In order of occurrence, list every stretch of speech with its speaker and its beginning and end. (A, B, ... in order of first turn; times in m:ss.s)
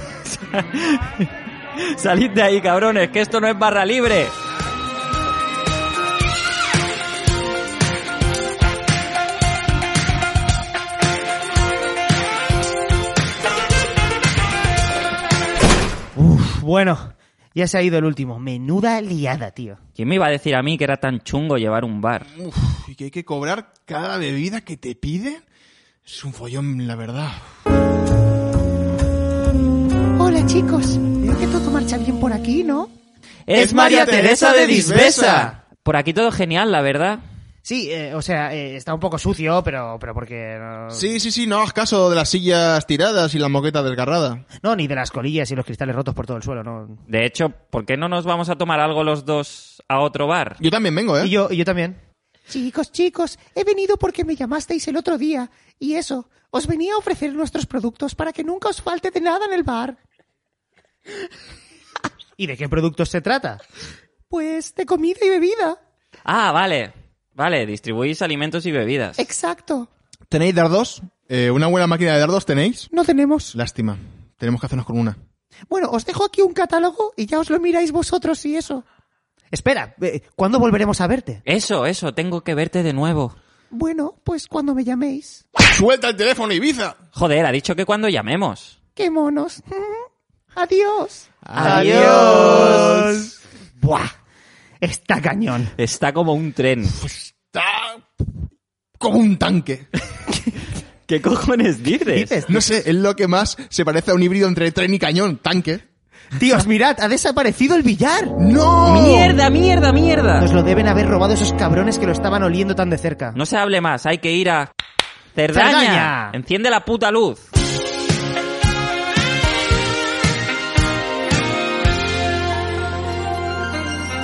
0:00.3-0:04.3 A
0:16.2-0:19.8 B
0:20.0-0:22.3 A
0:22.3-0:25.4 C
0:26.1-0:27.5 C
0:30.2-0:32.9 B
0:33.5-0:37.2 A
0:33.6-0:35.5 C
0:33.6-0:35.5 B
0:37.6-0:41.1 B
0:40.9-0:44.4 C
0:44.6-0:47.0 B
0:47.1-0:50.6 A
0:50.6-0:51.3 C
0:51.2-1:00.0 B
1:02.4-1:03.6 B
1:04.3-1:05.8 B
1:06.3-1:09.2 A
1:09.2-1:09.9 B
1:10.3-1:12.9 C
1:12.9-1:13.6 B
1:13.5-1:15.2 C
1:15.7-1:18.8 B
1:19.5-1:21.4 B
1:21.5-1:23.4 A
1:23.7-1:25.4 B
1:25.6-1:27.0 C
1:27.1-1:28.8 A
1:29.0-1:34.1 B
1:31.4-1:33.2 C
1:31.6-1:32.9 A
1:34.8-1:35.7 B
1:35.8-1:37.0 A
1:37.0-1:38.0 C
1:39.0-1:39.9 C
1:41.1-1:42.4 A
1:42.1-1:42.7 B
1:42.5-1:45.8 C
1:46.4-1:48.4 B
1:48.4-1:49.4 C
1:48.8-1:50.5 A
1:50.4-1:53.4 B
1:53.4-1:54.7 A
1:55.4-1:57.5 A
1:55.5-1:56.4 B